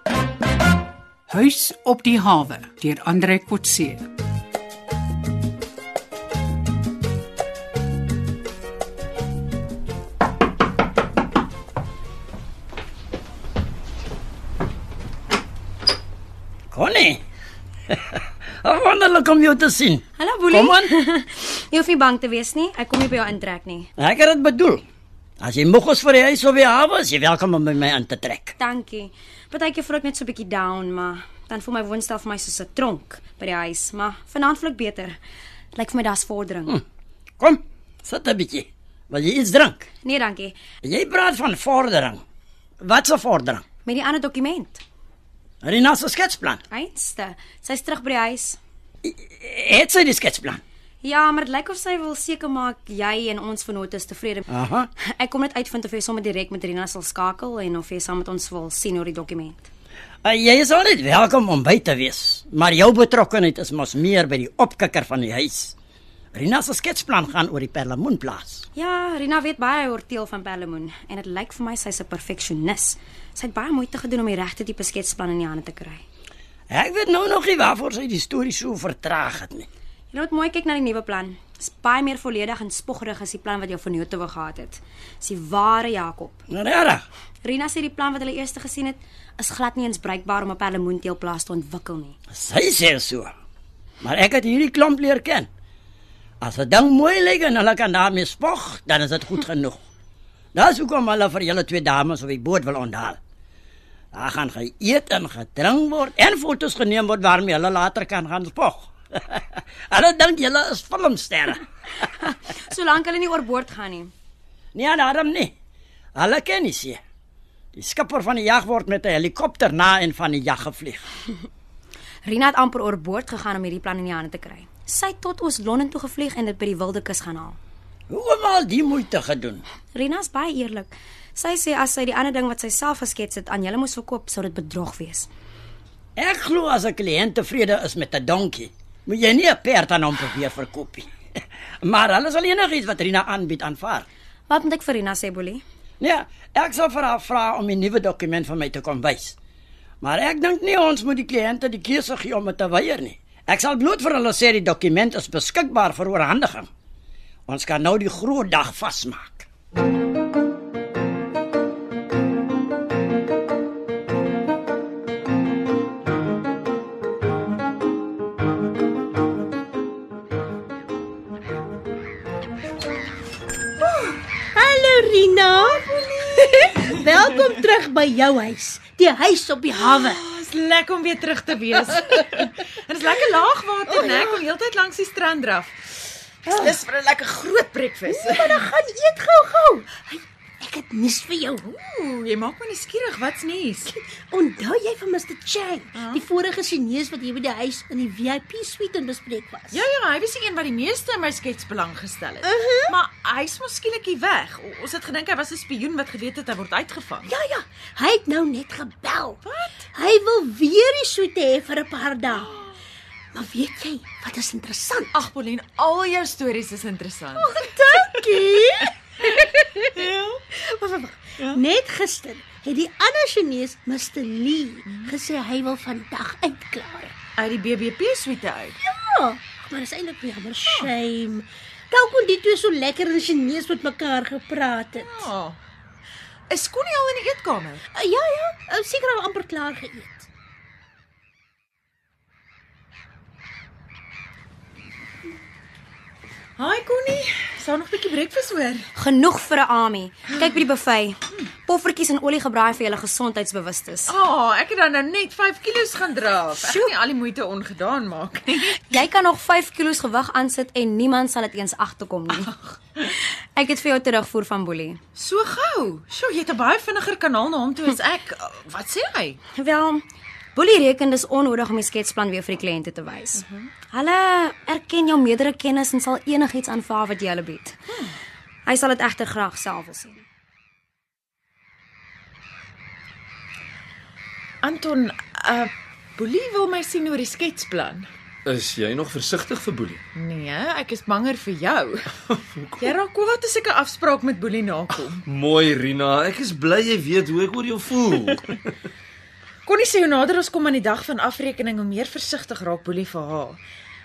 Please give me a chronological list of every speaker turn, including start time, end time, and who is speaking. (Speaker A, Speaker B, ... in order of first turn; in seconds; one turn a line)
Speaker A: 1.3-4.1
Speaker B: 16.7-17.2
Speaker B: 17.9-20.9
Speaker C: 20.2-23.9
Speaker B: 24.0-24.8
Speaker B: 25.4-28.5
Speaker C: 28.6-35.2
Speaker C: 35.7-36.8
Speaker B: 37.4-39.9
Speaker C: 40.0-40.6
Speaker B: 40.8-42.2
Speaker B: 42.8-43.6
Speaker C: 43.8-44.8
Speaker B: 45.6-46.6
Speaker C: 46.7-48.6
Speaker B: 49.0-50.6
Speaker C: 51.0-54.5
Speaker B: 54.5-54.9
Speaker C: 55.2-59.7
Speaker B: 60.2-65.7
Speaker B: 66.3-68.7
Speaker C: 68.8-76.0
Speaker B: 76.7-79.7
Speaker C: 80.1-86.5
Speaker B: 86.5-87.0
Speaker C: 87.4-92.2
Speaker B: 92.3-93.3
Speaker B: 94.0-95.5
Speaker B: 96.4-99.8
Speaker B: 100.5-103.2
Speaker B: 104.1-111.7
Speaker C: 112.2-114.1
Speaker B: 114.8-115.5
Speaker B: 116.2-117.0
Speaker B: 117.8-121.0
Speaker C: 122.2-127.6
Speaker B: 128.1-129.6
Speaker C: 129.9-135.3
Speaker B: 136.2-141.1
Speaker B: 141.8-144.1
Speaker C: 144.5-145.6
Speaker B: 146.0-149.4
Speaker B: 150.0-156.7
Speaker B: 157.5-159.5
Speaker D: 174.5-180.2
Speaker E: 179.8-185.8
Speaker D: 183.9-184.4
Speaker E: 186.5-188.6
Speaker D: 188.1-191.7
Speaker E: 191.7-193.9
Speaker D: 193.9-199.8
Speaker E: 195.9-196.2
Speaker E: 199.7-207.3
Speaker D: 202.4-203.0
Speaker D: 207.3-209.4
Speaker E: 209.4-209.8
Speaker D: 209.9-212.5
Speaker D: 213.3-215.1
Speaker E: 215.1-217.7
Speaker D: 217.4-227.1
Speaker E: 220.0-220.3
Speaker E: 224.9-225.1
Speaker E: 227.4-228.8
Speaker D: 228.8-235.3
Speaker E: 234.9-235.6
Speaker E: 236.5-237.8
Speaker D: 237.9-240.3
Speaker E: 246.6-248.9
Speaker C: 248.9-254.2
Speaker E: 254.1-258.8
Speaker C: 256.6-256.9
Speaker C: 258.9-265.0
Speaker E: 265.2-269.4
Speaker C: 269.5-270.0
Speaker C: 270.6-277.8
Speaker C: 278.7-280.2
Speaker E: 284.6-288.1
Speaker F: 288.5-290.0
Speaker E: 290.1-292.1
Speaker F: 292.3-293.0
Speaker E: 292.8-295.2
Speaker F: 295.2-298.7
Speaker E: 299.7-303.6